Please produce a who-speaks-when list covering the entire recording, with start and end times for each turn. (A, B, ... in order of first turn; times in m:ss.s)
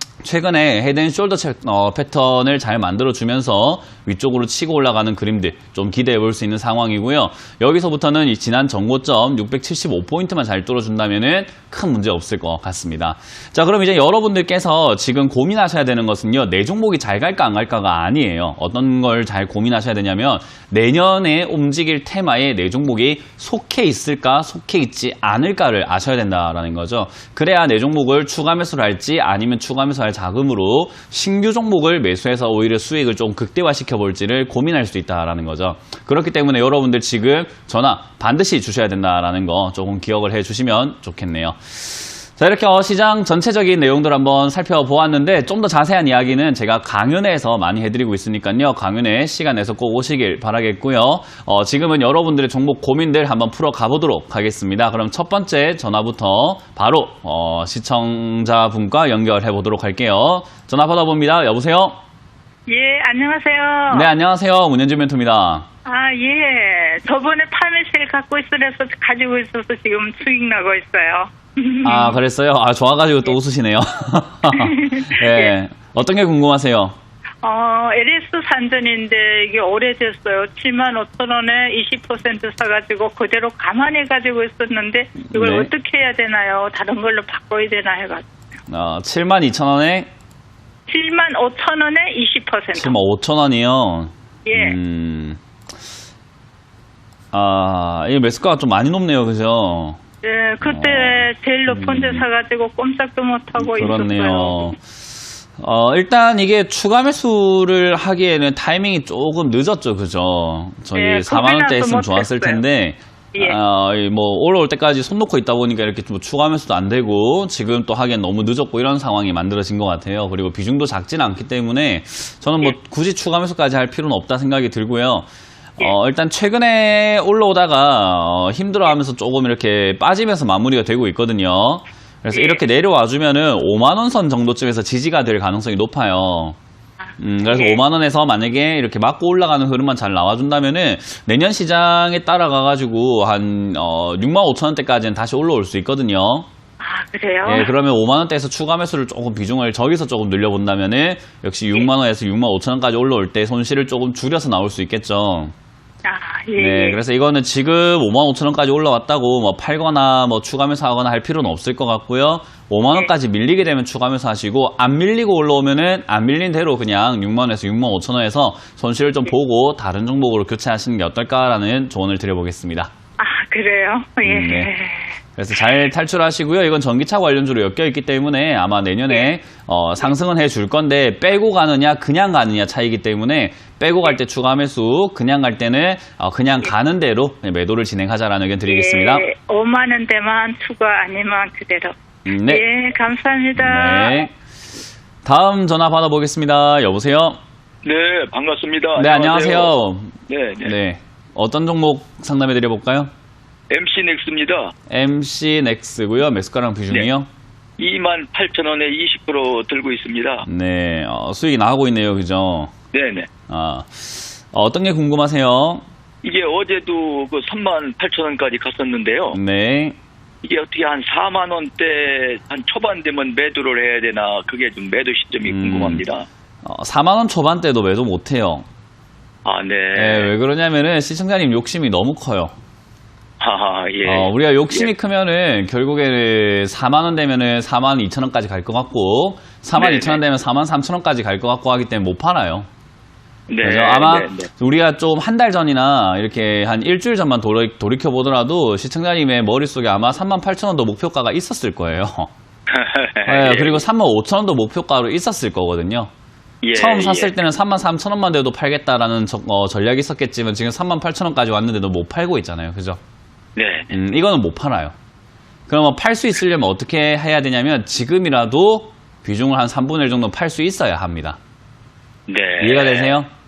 0:00.2-1:02.0 A
1:02.7-1:04.1 B
1:03.9-1:05.7 A
1:05.9-1:12.2 B
1:11.8-1:17.0 A
1:14.5-1:15.5 B
1:17.4-1:28.3 B
1:25.2-1:25.7 A
1:28.7-1:30.1 A
1:30.9-1:33.0 B
1:32.8-1:35.4 A
1:34.4-1:34.8 B
1:37.3-1:40.0 A
1:40.2-1:44.7 B
1:40.6-1:42.3 A
1:43.6-1:44.8 A
1:45.6-2:05.3 A
1:51.0-1:52.6 B
2:05.8-2:16.6 A
2:12.3-2:12.6 B
2:17.2-2:26.5 A
2:17.5-2:17.8 B
2:26.8-2:27.7 B
2:27.4-2:35.5 A
2:36.0-2:37.0 B
2:36.6-2:52.9 A
2:53.2-2:55.1 B
2:54.2-2:54.7 A
2:55.4-3:09.3 A
3:08.7-3:14.2 B
3:12.3-3:12.6 A
3:13.6-3:14.3 A
3:15.2-3:17.4 A
3:17.8-3:19.7 C
3:19.0-3:23.1 A
3:20.3-3:20.8 C
3:23.7-3:24.7 C
3:24.9-3:27.3 A
3:27.8-3:30.4 C
3:30.5-3:32.7 A
3:32.9-3:33.3 C
3:33.5-3:35.8 A
3:36.2-3:39.4 C
3:39.3-3:40.0 A
3:40.4-3:46.3 C
3:45.4-3:46.0 A
3:46.6-3:48.6 A
3:49.4-3:50.3 C
3:50.0-3:52.5 A
3:53.4-3:54.9 C
3:54.0-4:02.7 A
3:59.8-4:00.2 C
4:03.5-4:04.5 C
4:03.6-4:12.3 A
4:12.7-4:13.8 C
4:13.3-4:16.1 A
4:16.6-4:17.3 C
4:16.8-4:23.0 A
4:23.6-4:23.9 C
4:23.9-4:24.9 A
4:25.7-4:31.4 A
4:32.3-4:33.2 C
4:32.6-4:33.3 A